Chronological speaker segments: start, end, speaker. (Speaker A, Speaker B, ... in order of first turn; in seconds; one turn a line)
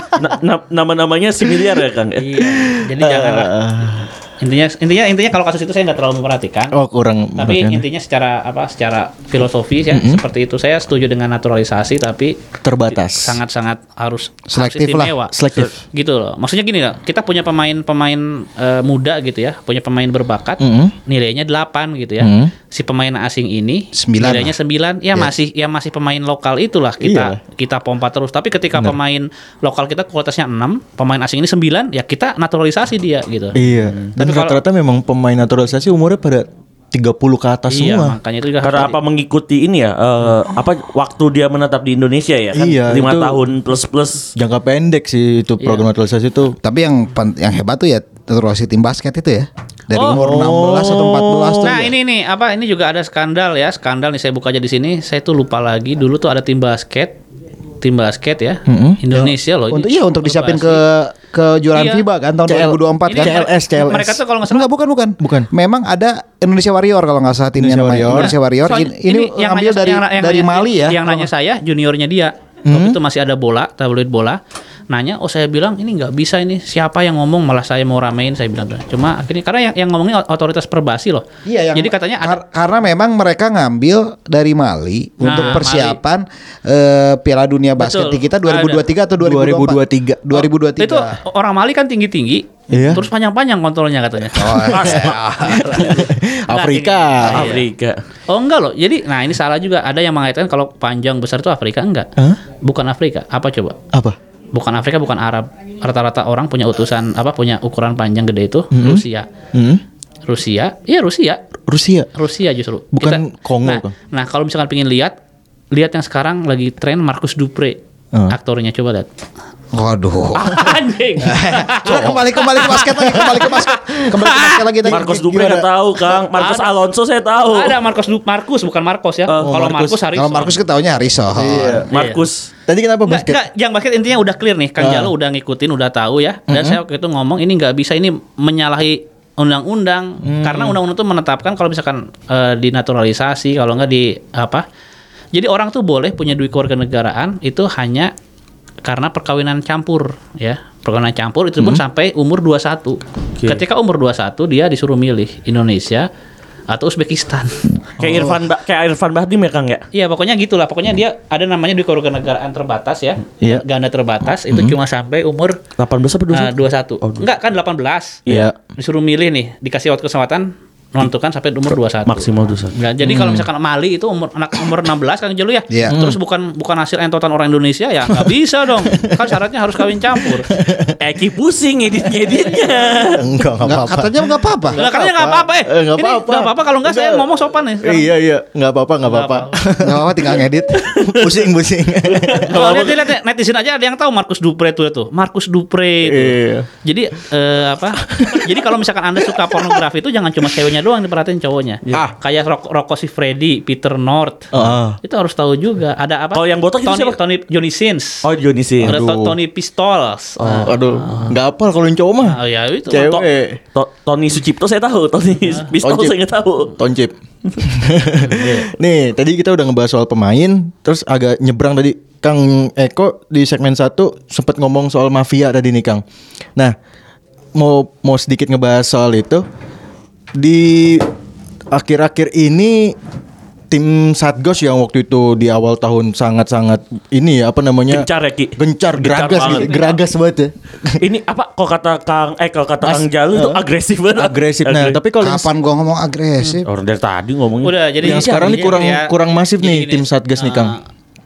Speaker A: 0.2-2.4
Speaker B: 2.2-3.5
Speaker C: 2.5-4.1
Speaker B: 4.4-6.8
Speaker C: 6.7-7.8
Speaker B: 7.4-12.4
Speaker C: 9.9-10.2
Speaker C: 12.6-13.4
Speaker B: 12.9-15.3
Speaker D: 14.5-15.2
Speaker C: 15.3-15.8
Speaker B: 15.9-34.6
Speaker C: 20.6-20.9
Speaker C: 22.2-22.5
Speaker D: 23.9-24.5
Speaker C: 27.0-27.4
Speaker C: 33.5-38.2
Speaker B: 37.7-39.0
Speaker A: 38.6-44.3
Speaker C: 42.5-43.4
Speaker C: 44.4-46.6
Speaker B: 45.6-45.9
Speaker D: 46.6-51.9
Speaker B: 49.9-50.2
Speaker C: 50.1-51.6
Speaker A: 50.7-51.2
Speaker B: 51.6-57.2
Speaker B: 57.8-60.8
Speaker C: 58.7-59.0
Speaker D: 59.1-63.4
Speaker B: 61.7-62.0
Speaker C: 62.5-64.2
Speaker B: 63.1-64.7
Speaker D: 64.5-71.3
Speaker C: 65.2-65.5
Speaker C: 67.6-68.4
Speaker B: 68.1-82.4
Speaker C: 72.7-73.0
Speaker D: 81.5-91.2
Speaker B: 85.2-86.0
Speaker B: 87.8-88.8
Speaker C: 89.2-90.4
Speaker B: 90.3-97.7
Speaker C: 92.7-93.0
Speaker D: 94.3-96.0
Speaker A: 94.7-95.8
Speaker C: 95.7-97.5
Speaker A: 97.2-98.0
Speaker B: 98.3-102.1
Speaker B: 102.6-103.8
Speaker C: 103.9-104.2
Speaker B: 104.5-109.3
Speaker C: 108.7-109.8
Speaker B: 110.3-111.4
Speaker C: 111.7-112.1
Speaker B: 112.1-115.2
Speaker C: 112.9-113.9
Speaker B: 115.7-119.1
Speaker D: 119.7-125.2
Speaker B: 120.3-124.8
Speaker C: 121.9-122.2
Speaker A: 124.9-127.8
Speaker C: 124.9-125.7
Speaker B: 126.3-126.7
Speaker B: 127.5-130.6
Speaker A: 129.3-129.7
Speaker C: 129.4-130.0
Speaker D: 130.1-131.9
Speaker C: 131.3-131.9
Speaker B: 131.9-132.2
Speaker A: 131.9-132.5
Speaker C: 132.7-133.4
Speaker B: 133.1-144.7
Speaker C: 134.8-135.1
Speaker C: 136.5-136.8
Speaker C: 140.2-140.8
Speaker B: 145.3-148.1
Speaker B: 148.8-156.1
Speaker B: 156.7-157.7
Speaker A: 158.0-159.8
Speaker C: 158.0-158.4
Speaker B: 159.9-165.6
Speaker C: 164.5-164.8
Speaker A: 165.8-167.3
Speaker B: 166.3-180.5
Speaker A: 168.3-168.5
Speaker C: 168.3-168.6
Speaker A: 172.1-172.7
Speaker C: 173.0-173.5
Speaker D: 175.7-176.1
Speaker C: 175.9-176.2
Speaker C: 179.0-179.3
Speaker C: 180.2-181.0
Speaker A: 181.0-183.2
Speaker C: 183.1-192.8
Speaker D: 183.6-184.8
Speaker B: 184.8-188.1
Speaker B: 189.1-189.7
Speaker D: 189.8-190.9
Speaker A: 190.8-191.4
Speaker A: 192.1-193.1
Speaker B: 192.5-204.5
Speaker C: 196.0-196.7
Speaker C: 198.0-198.6
Speaker C: 199.4-199.8
Speaker C: 204.5-205.0
Speaker B: 205.0-208.2
Speaker A: 206.3-207.2
Speaker A: 208.2-209.0
Speaker C: 208.8-209.4
Speaker B: 208.8-211.3
Speaker A: 210.4-211.4
Speaker C: 210.6-213.6
Speaker B: 212.2-213.2
Speaker A: 213.7-216.8
Speaker C: 215.8-216.2
Speaker C: 216.7-226.0
Speaker A: 218.3-218.6
Speaker C: 227.6-229.4
Speaker C: 230.4-231.1
Speaker C: 231.7-233.0
Speaker C: 233.7-241.0
Speaker A: 237.9-239.8
Speaker B: 239.4-240.0
Speaker A: 241.0-245.0
Speaker C: 242.8-243.6
Speaker C: 244.2-245.5
Speaker D: 245.2-246.7
Speaker A: 246.6-248.5
Speaker B: 247.6-250.8
Speaker C: 248.0-250.8